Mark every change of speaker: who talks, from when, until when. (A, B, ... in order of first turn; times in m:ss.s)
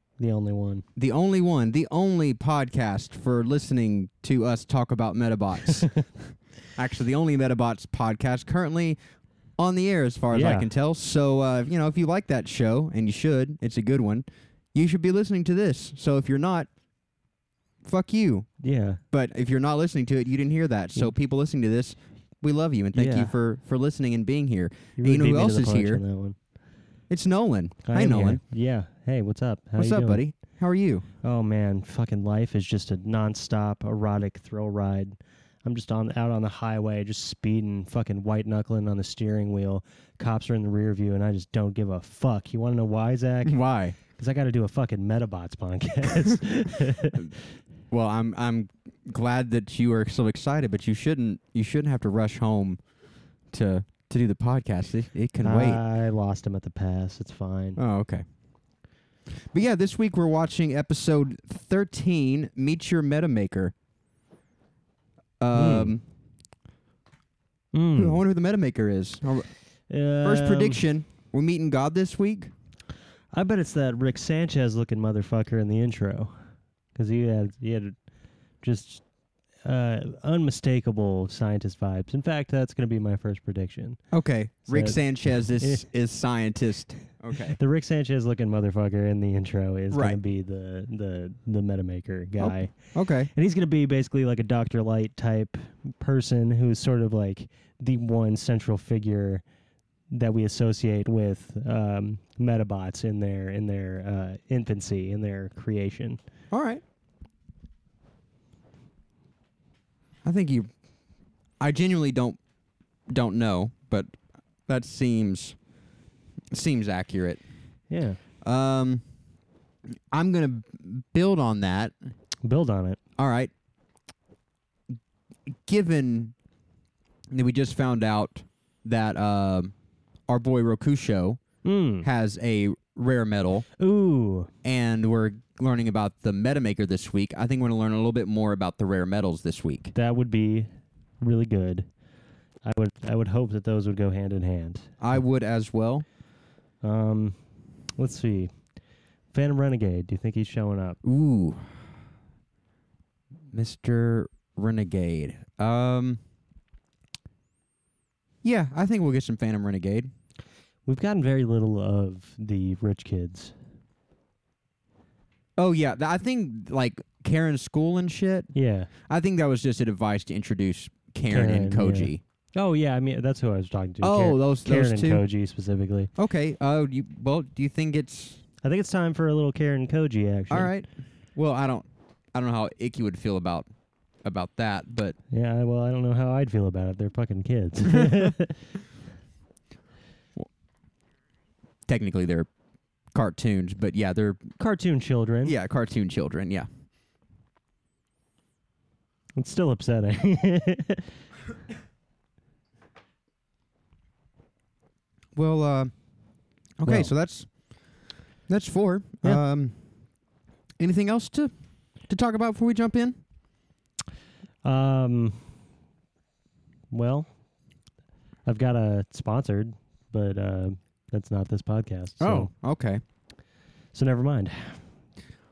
0:00.2-0:00.8 A
0:01.0-0:05.9 B
0:06.7-0:09.0 B
0:09.6-0:16.7 B
0:10.3-0:10.7 A
0:17.8-0:18.5 B
0:18.6-0:19.0 A
0:19.1-0:26.0 B
0:22.9-0:23.3 A
0:25.0-0:26.4 A
0:27.1-0:28.4 B
0:27.8-0:30.2 A
0:29.8-0:31.1 B
0:31.2-0:47.3 A
0:43.4-0:44.0 B
0:47.9-0:52.8 B
0:53.5-0:55.8 B
0:55.4-0:57.8 A
0:57.8-0:58.2 B
0:59.5-1:03.7 B
1:05.4-1:06.0 B
1:05.5-1:06.0 A
1:07.7-1:08.2 A
1:07.9-1:09.5 B
1:09.9-1:10.8 A
1:10.2-1:12.5 B
1:13.3-1:16.3 A
1:16.9-1:17.9 A
1:18.6-1:19.0 A
1:19.6-1:24.0 A
1:24.1-1:27.6 B
1:24.7-1:25.8 A
1:27.4-1:32.8 A
1:29.9-1:30.2 B
1:32.4-1:33.3 B
1:33.3-1:39.4 A
1:40.1-1:46.2 A
1:46.5-1:46.8 B
1:50.2-1:50.7 B
1:51.6-1:52.4 B
1:53.1-1:54.1 B
1:54.7-1:55.6 B
1:56.5-1:57.4 B
1:57.9-1:58.2 A
1:58.4-1:59.0 B
2:00.1-2:01.9 B
2:02.4-2:03.0 A
2:03.2-2:03.5 B
2:05.6-2:06.3 B
2:07.3-2:09.7 B
2:10.3-2:11.4 B
2:11.6-2:12.0 A
2:12.0-2:13.6 B
2:13.8-2:14.5 A
2:14.6-2:19.9 B
2:19.9-2:20.7 A
2:21.2-2:21.9 A
2:22.6-2:24.9 A
2:25.0-2:26.0 B
2:26.8-2:27.4 A
2:28.0-2:28.5 A
2:29.3-2:31.0 A
2:31.0-2:31.6 B
2:33.5-2:36.2 B
2:38.4-2:40.1 B
2:40.8-2:43.5 A
2:45.6-2:48.5 B
2:48.5-2:48.9 A
2:49.1-2:52.2 B
2:51.3-2:56.1 A
2:54.0-2:55.2 B
2:56.2-2:58.4 B
2:58.6-3:00.7 A
3:00.5-3:03.7 B
3:04.2-3:05.2 B
3:05.3-3:08.6 A
3:07.9-3:08.3 B
3:11.9-3:12.5 B
3:13.1-3:14.4 B
3:14.6-3:15.5 A
3:15.4-3:16.7 B
3:19.4-3:21.1 A
3:25.4-3:25.9 B
3:26.8-3:27.5 B
3:26.8-3:27.1 A
3:28.5-3:29.8 B
3:30.8-3:33.2 B
3:34.6-3:35.5 A
3:36.9-3:37.3 A
3:38.4-3:42.5 A
3:42.2-3:43.0 B
3:43.9-3:44.8 A